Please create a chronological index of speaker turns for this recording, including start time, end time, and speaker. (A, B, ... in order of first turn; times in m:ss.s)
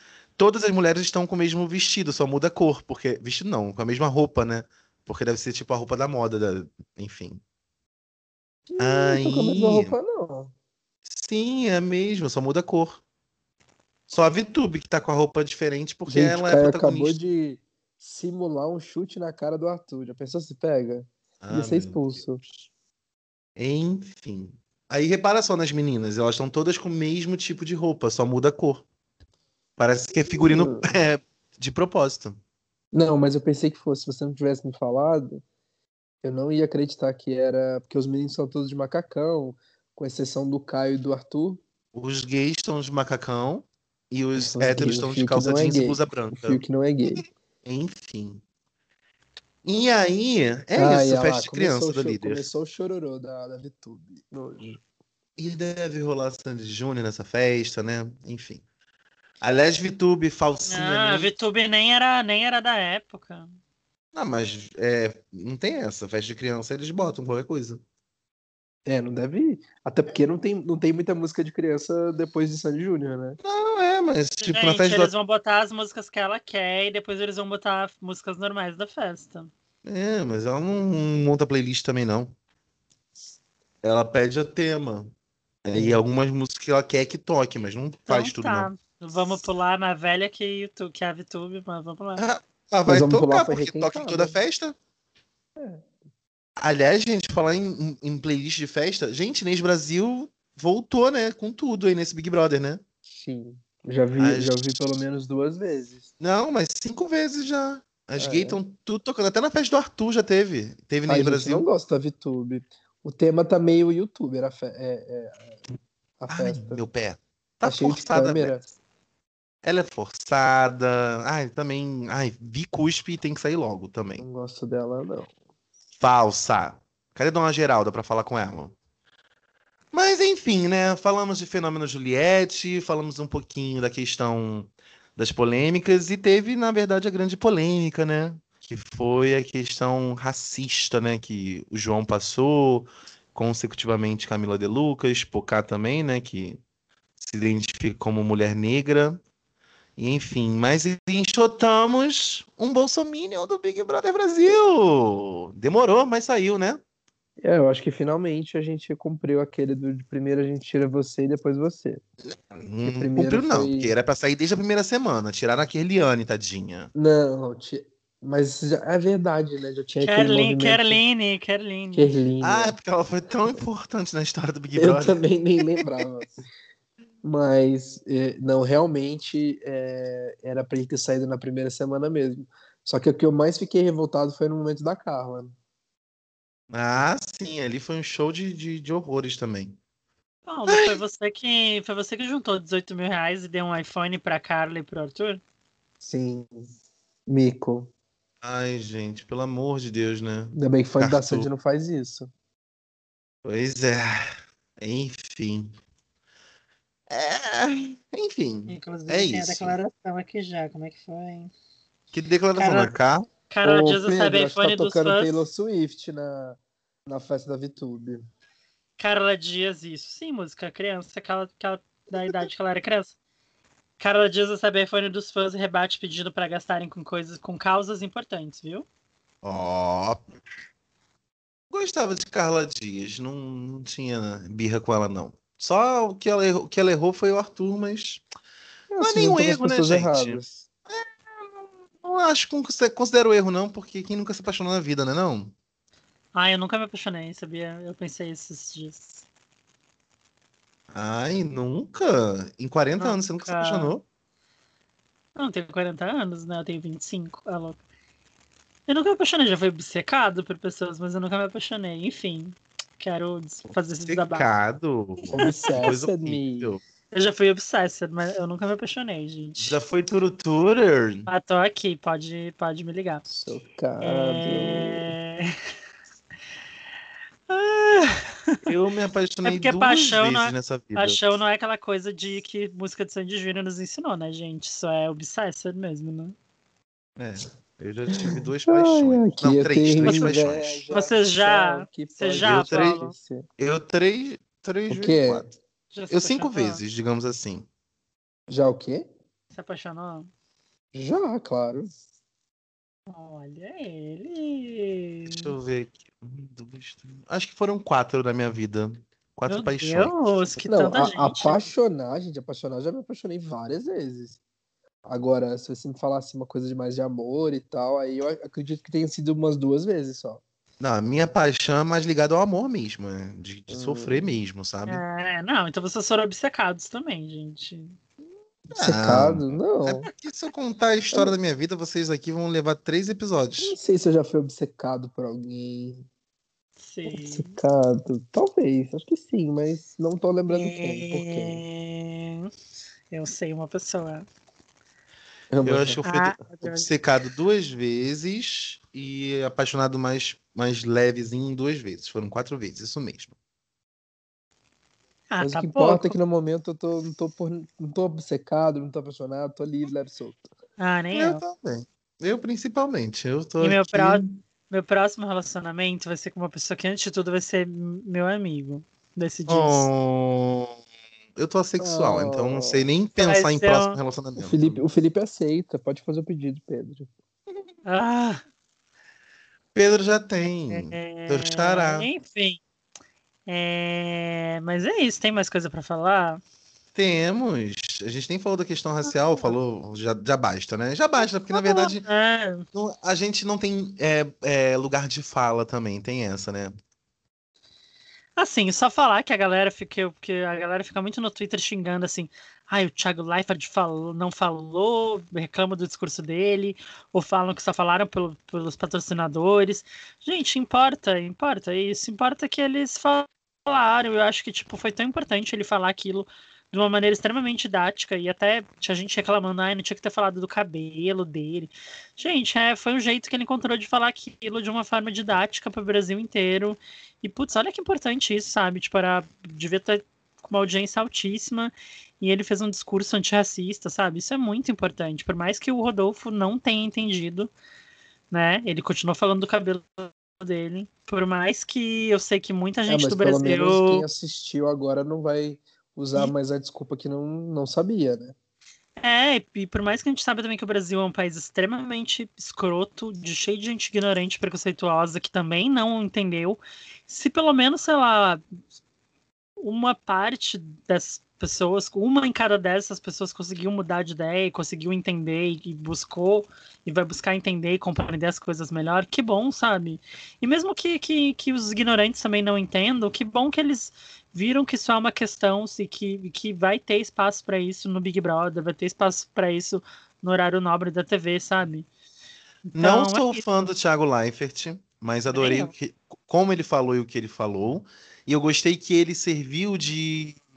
0:00.4-0:07.4 A
0:08.7-0:10.5 B
0:08.8-0:10.0 A
0:11.1-0:13.0 A
0:14.1-0:17.2 A
0:16.1-0:22.4 B
0:21.4-0:22.7 A
0:23.6-0:28.8 A
0:29.8-0:32.4 A
0:30.4-0:30.9 B
0:32.9-0:35.4 B
0:36.2-0:41.6 B
0:41.9-0:46.6 A
0:44.4-0:47.2 B
0:47.2-0:48.4 A
0:49.6-0:52.5 A
0:50.8-0:54.8 B
0:55.4-0:58.6 A
0:59.4-1:01.3 A
1:00.7-1:03.5 C
1:04.1-1:07.8 A
1:08.9-1:13.4 B
1:13.4-1:15.1 A
1:14.4-1:19.5 C
1:19.8-1:22.3 A
1:23.8-1:25.1 A
1:25.6-1:28.7 A
1:25.7-1:26.0 B
1:28.1-1:32.2 C
1:32.2-1:34.8 A
1:32.9-1:34.4 B
1:35.6-1:35.9 B
1:36.6-1:42.8 A
1:43.1-1:46.1 B
1:44.2-1:44.6 A
1:46.2-1:51.7 A
1:48.2-1:48.6 B
1:51.1-1:55.6 B
1:56.2-1:56.8 B
1:56.3-1:58.7 A
1:57.6-1:58.6 B
1:59.6-2:04.2 A
2:04.2-2:05.3 B
2:06.0-2:08.8 A
2:09.9-2:26.6 A
2:27.2-2:29.2 A
2:30.0-2:36.8 A
2:37.4-2:42.0 B
2:42.5-2:46.9 A
2:42.8-2:43.9 B
2:47.0-2:51.0 B
2:50.0-2:52.1 C
2:51.9-2:52.8 B
2:52.4-2:55.2 A
2:54.8-2:56.4 B
2:57.2-3:05.6 B
3:06.7-3:09.8 A
3:10.5-3:15.4 C
3:10.7-3:11.0 A
3:16.0-3:16.7 B
3:17.3-3:17.9 B
3:18.4-3:21.5 A
3:20.5-3:22.3 B
3:23.4-3:24.2 A
3:24.8-3:25.8 A
3:27.1-3:29.8 A
3:28.7-3:31.5 C
3:32.1-3:33.3 A
3:32.6-3:32.9 C
3:33.5-3:35.4 C
3:33.6-3:38.2 B
3:39.0-3:43.2 C
3:44.0-3:48.9 C
3:49.4-3:50.3 A
3:51.7-3:58.2 A
3:58.9-4:00.7 B
3:59.0-4:05.5 A
4:06.3-4:09.3 C
4:10.9-4:14.0 A
4:13.0-4:13.9 C
4:15.4-4:17.8 C
4:18.9-4:24.5 C
4:23.7-4:26.8 A
4:25.3-4:25.8 C
4:25.4-4:26.7 B
4:27.1-4:29.8 C
4:29.6-4:31.3 A
4:31.3-4:33.2 C
4:33.3-4:35.2 B
4:34.0-4:35.6 C
4:37.5-4:38.7 C
4:38.7-4:41.2 A
4:39.4-4:46.4 C
4:47.2-4:50.9 A
4:48.2-4:53.4 B
4:50.0-4:50.3 C
4:50.9-4:53.1 C
4:52.4-4:53.0 A
4:53.6-4:55.5 A
4:54.9-4:55.5 B
4:55.9-4:56.8 C
4:56.1-4:57.7 A
4:58.5-4:59.1 B
4:59.5-5:00.3 C
5:00.9-5:01.9 B
5:03.1-5:05.5 C
5:05.3-5:10.1 A
5:09.5-5:11.7 C
5:10.7-5:14.4 B
5:15.0-5:20.4 B
5:20.8-5:25.0 A
5:23.7-5:24.4 B
5:24.9-5:28.0 C
5:28.7-5:30.1 B
5:28.7-5:33.8 A
5:33.6-5:36.1 B
5:36.8-5:37.6 C
5:37.1-5:41.6 B
5:40.5-5:42.5 C
5:43.1-5:44.3 C
5:45.5-5:46.0 B
5:45.6-5:53.4 A
5:46.0-5:46.9 C
5:55.3-5:56.2 C
5:55.4-6:00.5 B
6:00.8-6:01.4 C
6:01.1-6:04.4 A
6:03.6-6:09.9 C
6:09.5-6:10.8 A
6:11.4-6:14.8 A
6:11.8-6:12.9 B
6:13.2-6:14.0 C
6:14.4-6:17.1 B
6:17.9-6:18.4 C
6:19.8-6:22.1 A
6:20.7-6:22.6 C
6:23.5-6:26.4 C
6:27.0-6:32.1 A
6:29.1-6:29.6 C
6:31.2-6:32.7 C
6:32.7-6:36.7 A
6:38.4-7:17.5 C
7:18.3-7:24.0 C
7:22.9-7:28.4 B
7:29.0-7:38.4 C
7:39.6-8:01.9 C
8:02.7-8:03.5 C
8:02.8-8:10.4 A
8:05.3-8:05.7 C